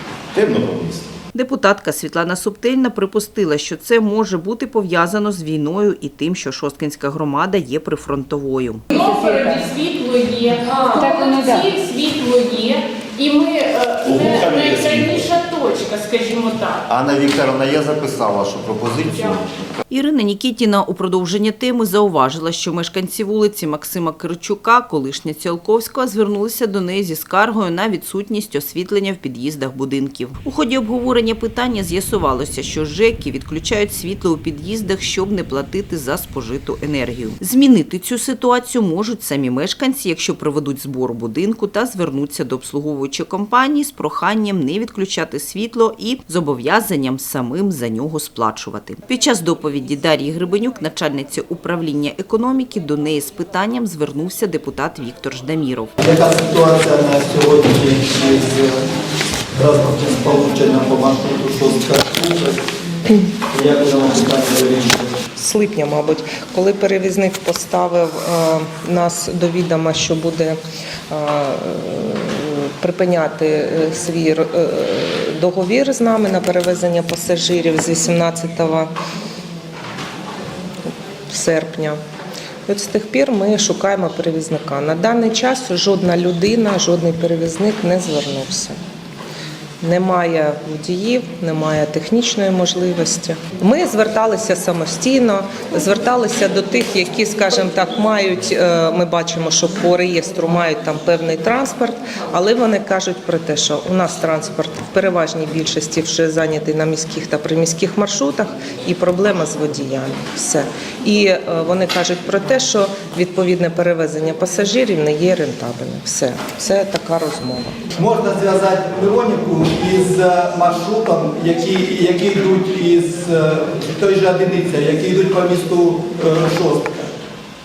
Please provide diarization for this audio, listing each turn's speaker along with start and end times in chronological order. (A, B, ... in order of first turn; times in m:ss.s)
0:00.3-0:01.1 A
0:01.3-0:08.8 B
0:08.9-0:16.9 C
0:08.9-0:09.6 D
0:11.0-0:11.4 D
0:14.0-0:15.2 A
0:16.9-0:19.7 E
0:19.9-0:55.9 B
0:56.0-0:58.8 F
0:59.6-1:02.6 F
1:03.5-1:05.2 F
1:05.4-1:10.6 D
1:11.1-1:18.9 D
1:21.3-1:22.0 D
1:22.7-1:28.8 D
1:29.8-1:57.9 D
1:58.0-2:07.0 F